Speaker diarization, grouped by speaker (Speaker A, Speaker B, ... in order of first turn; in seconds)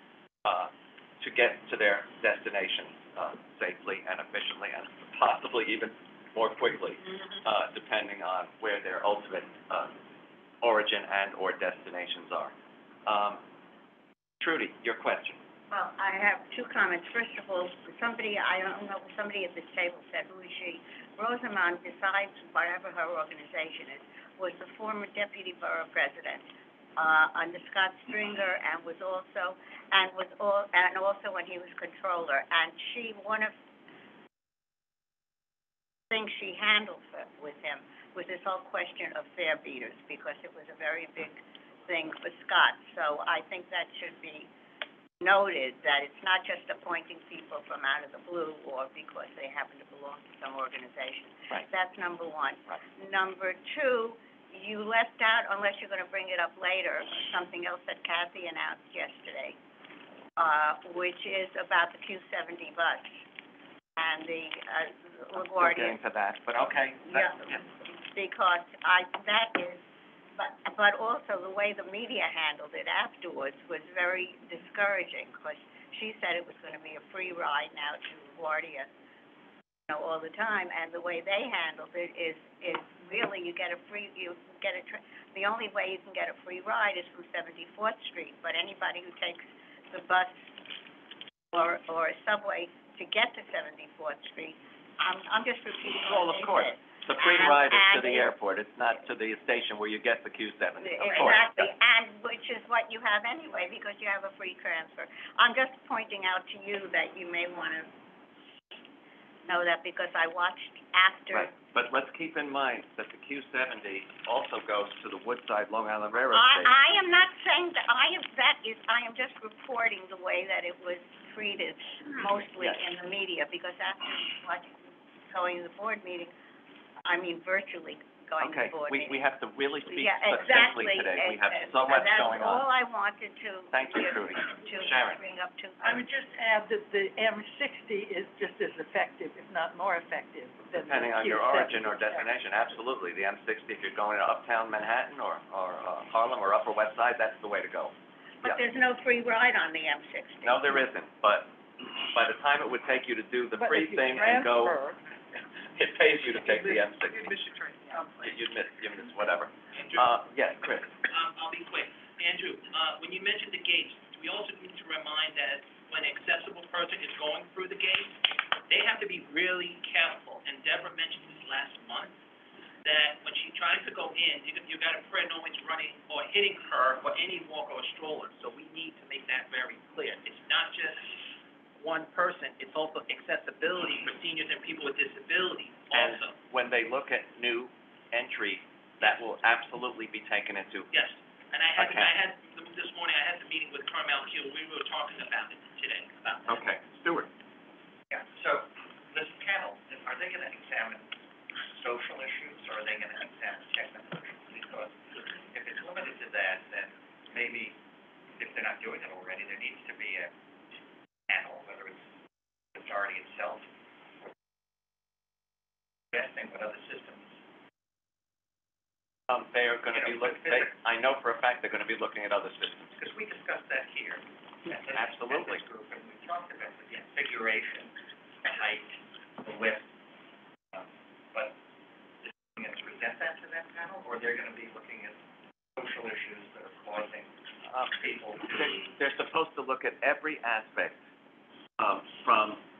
Speaker A: 0.4-9.9, 10.6-12.5, 13.1-13.4, 14.4-15.4, 65.5-67.6, 96.0-101.7, 111.3-116.7, 128.4-132.7, 133.7-135.2, 140.7-148.6, 150.4-151.5, 152.1-154.8, 155.7-157.3, 158.2-160.9, 185.9-190.9, 191.8-192.1, 196.4-197.3, 219.3-222.9, 224.9-225.6, 237.7-237.9, 238.5-241.0, 241.8-242.6
Speaker B: 15.7-33.5, 36.1-44.5, 45.2-59.6, 60.4-63.1, 64.0-66.0, 67.1-67.4, 68.0-69.8, 70.3-78.9, 79.9-90.5, 91.5-98.3, 100.8-107.9, 109.5-111.5, 116.3-126.3, 127.0-129.2, 129.8-136.1, 148.4-150.8
Speaker C: 135.8-142.8, 153.6-155.0, 156.4-158.3
Speaker D: 159.7-160.1, 161.1-168.2, 168.7-172.2, 172.8-181.1, 181.8-186.3, 190.9-196.6
Speaker E: 198.1-201.1, 201.8-207.8, 208.3-210.3, 211.3-212.0, 212.7-213.6, 216.1-217.2, 219.9-220.7, 222.9-227.9, 228.4-229.8, 230.7-231.6, 232.3-235.2, 235.8-237.3, 237.8-238.9